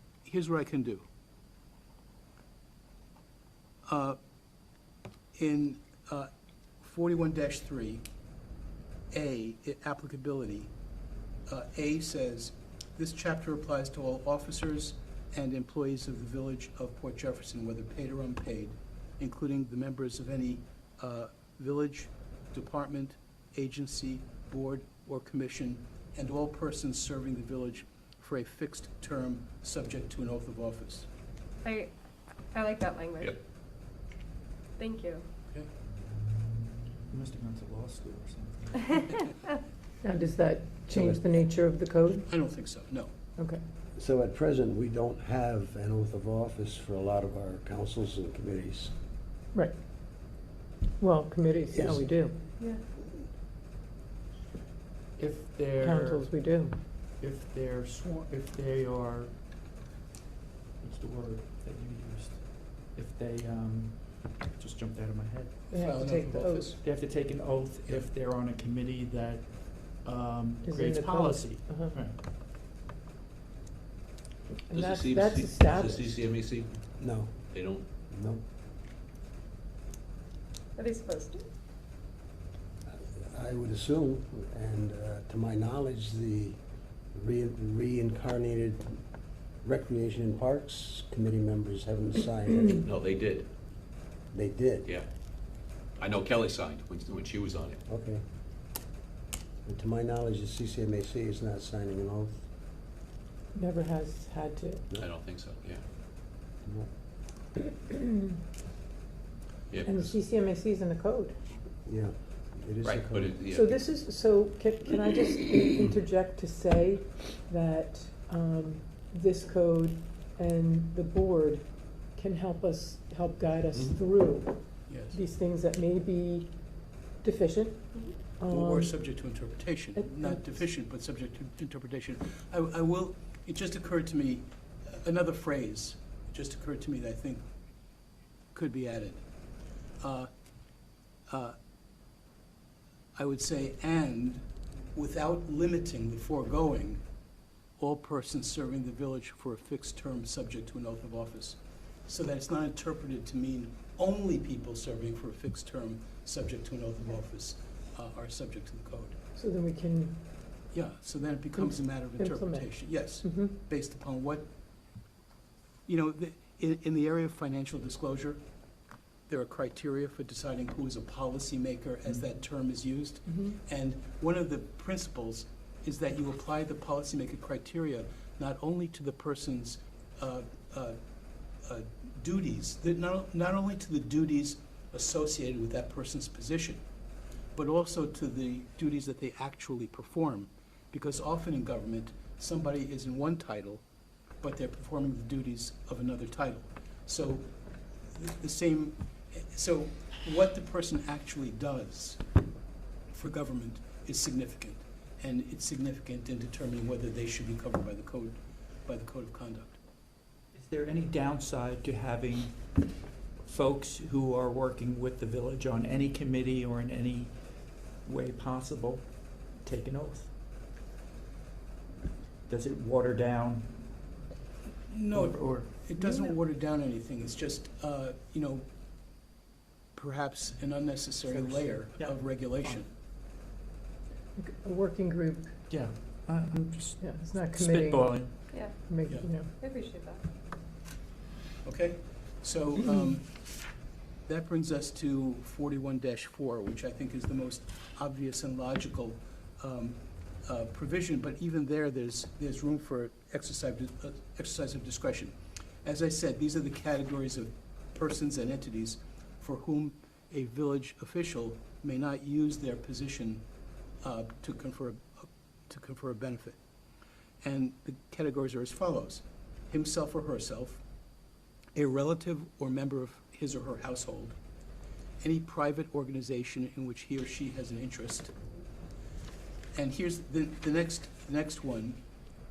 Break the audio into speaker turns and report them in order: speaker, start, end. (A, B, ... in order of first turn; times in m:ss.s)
0:00.3-0:01.0 A
0:03.9-0:04.2 A
0:05.4-0:06.3 A
0:06.8-0:08.1 A
0:09.1-0:10.7 A
0:11.5-0:31.1 A
0:31.6-0:31.9 B
0:32.5-0:33.4 B
0:34.8-0:35.2 B
0:37.1-0:39.3 C
0:40.0-0:42.3 D
0:40.9-0:41.4 E
0:42.3-0:43.1 A
0:43.4-0:43.6 D
0:44.0-0:48.9 E
0:51.0-0:52.4 D
0:51.7-0:52.1 E
0:55.2-0:59.4 C
0:55.8-0:56.8 D
1:00.8-1:05.7 C
1:05.7-1:06.7 D
1:05.7-1:06.8 A
1:06.7-1:12.2 C
1:10.6-1:12.0 D
1:14.7-1:16.1 D
1:14.8-1:16.8 F
1:17.0-1:17.3 E
1:17.5-1:17.8 F
1:18.1-1:18.4 E
1:20.8-1:21.4 B
1:23.2-1:26.6 E
1:27.1-1:28.9 E
1:29.6-1:32.9 E
1:32.8-1:33.5 F
1:34.3-1:34.9 E
1:36.0-1:37.8 F
1:37.9-1:38.2 E
1:39.7-1:42.4 E
1:43.6-1:44.9 D
1:45.0-1:45.8 F
1:49.7-1:50.1 F
1:49.9-1:51.4 D
1:51.9-1:53.4 E
1:52.8-1:53.8 F
1:53.4-2:09.2 D
2:04.9-2:05.2 A
2:07.9-2:08.2 B
2:08.5-2:17.5 A
2:10.0-2:10.4 D
2:18.5-2:19.2 A
2:20.0-2:20.3 A
2:21.3-2:21.6 A
2:23.2-2:27.0 A
2:27.8-2:39.2 A
2:39.4-2:40.2 D
2:40.7-2:44.5 A
2:41.5-2:43.5 D
2:45.9-2:48.4 A
2:49.3-3:01.0 A
2:53.3-2:53.6 D
3:01.6-3:06.8 A
3:07.6-3:13.8 A
3:14.4-3:17.5 A
3:18.1-3:22.2 A
3:23.1-3:29.8 A
3:30.5-3:32.6 C
3:33.4-3:37.4 C
3:38.0-3:40.3 C
3:42.5-3:43.7 C
3:44.9-3:48.7 A
3:45.1-3:46.3 C
3:50.0-3:52.9 A
3:51.3-3:52.8 C
3:54.4-3:55.5 D
3:55.7-3:58.4 C
3:57.0-3:59.6 D
3:58.5-3:58.8 B
3:59.1-3:59.3 A
3:59.6-4:00.2 B
4:01.6-4:03.4 A
4:04.3-4:23.5 A
4:24.0-4:26.6 A
4:27.4-4:30.8 A
4:31.8-4:34.4 A
4:35.2-4:38.3 A
4:39.7-4:42.0 A